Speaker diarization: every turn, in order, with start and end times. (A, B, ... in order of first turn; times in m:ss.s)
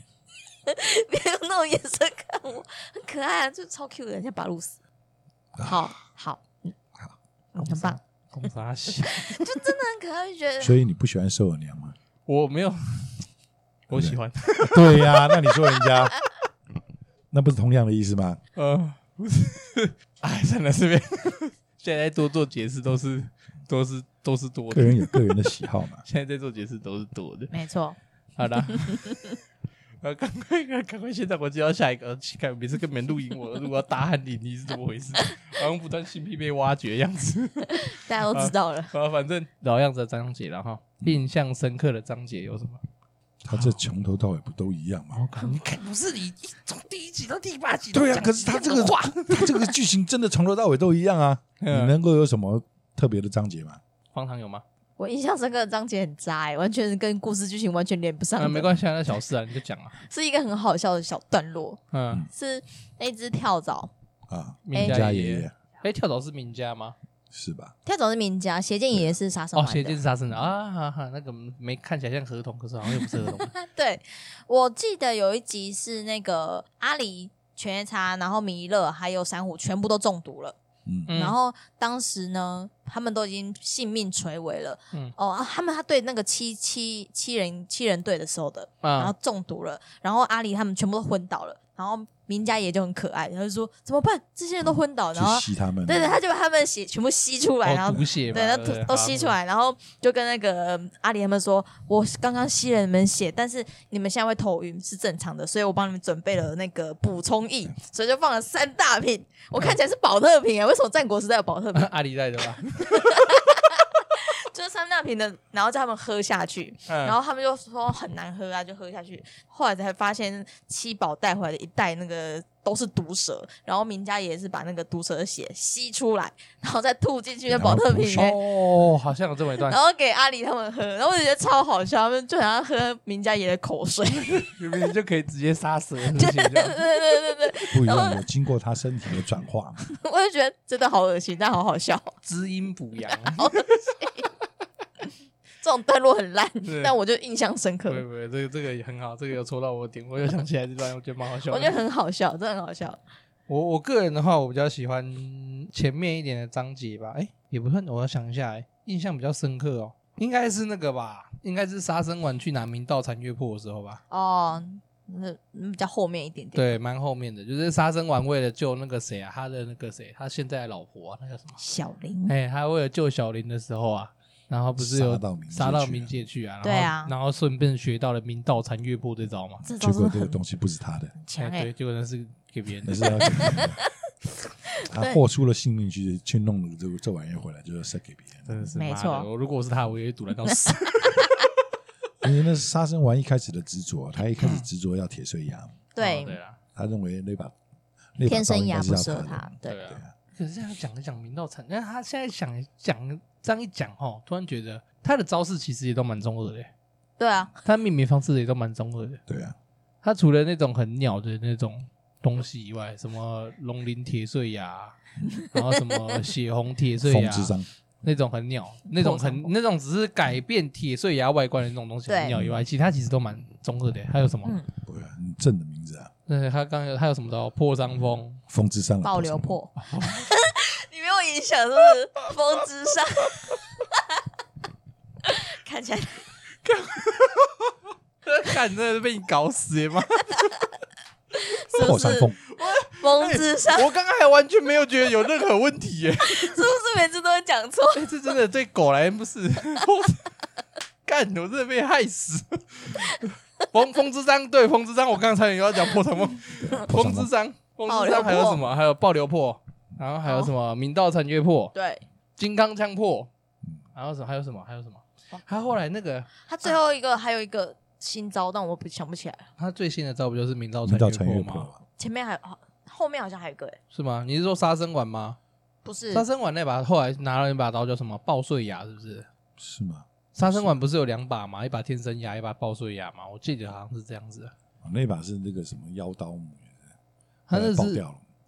0:00.6-0:04.8 A
0:05.5-0:05.9 B
0:05.6-0:06.7 A
0:07.5-0:08.0 A
0:07.6-0:09.4 C
0:09.0-0:10.7 A
0:10.6-0:12.0 B
0:12.2-0:13.2 C
0:13.9-0:15.8 C
0:13.9-0:16.2 B
0:17.3-0:18.4 B
0:18.6-0:25.2 C
0:24.7-0:26.0 B
0:26.0-0:27.5 C
0:27.5-0:28.0 A
0:28.4-0:29.2 C
0:28.7-0:29.2 A
0:30.0-0:42.8 C
0:37.7-0:38.9 A
0:43.4-0:45.2 B
0:43.5-0:43.8 C
0:45.1-0:49.7 C
0:47.9-0:53.8 B
0:51.6-0:51.9 C
0:54.1-0:54.6 C
0:55.0-0:58.7 A
0:58.4-1:00.0 C
1:00.0-1:03.9 A
1:01.9-1:02.2 C
1:04.3-1:05.5 B
1:04.6-1:07.0 C
1:04.7-1:05.0 A
1:07.3-1:07.7 B
1:07.8-1:10.0 A
1:09.5-1:13.5 C
1:12.9-1:20.6 A
1:20.8-1:21.1 B
1:21.1-1:21.4 C
1:21.1-1:51.9 A
1:28.8-1:29.1 C
1:34.6-1:36.2 B
1:37.6-1:39.3 C
1:51.7-1:53.3 C
1:52.9-2:08.4 A
1:56.9-1:57.2 C
2:07.5-2:08.4 B
2:08.1-2:09.8 C
2:09.7-2:14.5 A
2:14.3-2:16.8 C
2:16.1-2:18.2 A
2:17.7-2:19.8 B
2:19.8-2:22.2 A
2:22.2-2:23.6 C
2:23.4-2:24.3 A
2:25.6-2:28.0 A
2:26.6-2:26.9 C
2:27.9-2:31.7 C
2:31.5-2:33.0 A
2:33.5-2:44.0 C
2:44.1-2:46.7 A
2:46.5-2:51.6 C
2:51.6-2:52.3 A
2:52.3-2:59.6 C
2:54.8-2:56.2 B
2:56.6-2:57.1 A
2:59.6-3:01.1 B
2:59.6-3:00.4 A
3:01.2-3:01.7 A
3:01.4-3:03.6 C
3:02.8-3:03.8 B
3:03.3-3:03.8 A
3:04.7-3:05.2 A
3:04.8-3:08.7 B
3:08.5-3:11.3 C
3:08.7-3:09.3 A
3:12.2-3:15.8 B
3:14.4-3:14.6 C
3:15.9-3:16.4 A
3:16.0-3:16.6 C
3:16.7-3:17.5 B
3:18.2-3:20.1 B
3:18.2-3:19.8 A
3:19.6-3:26.7 C
3:27.2-3:27.5 A
3:27.6-3:29.2 C
3:29.3-3:29.6 B
3:30.0-3:35.0 C
3:35.5-3:44.6 C
3:37.0-3:37.7 B
3:38.9-3:39.5 A
3:42.1-3:42.4 A
3:42.3-3:42.6 B
3:44.8-3:46.1 B
3:46.3-3:48.4 C
3:48.5-3:49.6 B
3:49.0-3:54.2 A
3:49.8-3:50.3 C
3:55.2-3:56.3 A
3:56.6-3:57.7 C
3:58.2-4:00.5 C
4:01.4-4:02.3 A
4:01.7-4:02.4 B
4:02.4-4:06.6 C
4:02.9-4:03.9 A
4:06.2-4:08.2 A
4:07.9-4:10.2 C
4:11.0-4:21.7 C
4:16.6-4:17.3 B
4:17.9-4:18.6 A
4:20.2-4:20.5 A
4:21.7-4:22.0 A
4:22.4-4:23.3 C
4:23.9-4:26.7 C
4:26.4-4:29.5 A
4:29.6-4:31.7 C
4:30.8-4:31.8 B
4:32.0-4:33.8 A
4:33.9-4:35.4 C
4:35.8-4:36.2 A
4:36.1-4:39.3 C
4:39.6-4:40.7 B
4:40.3-4:44.5 C
4:44.8-4:46.9 B
4:47.5-4:48.0 C
4:47.5-4:48.2 B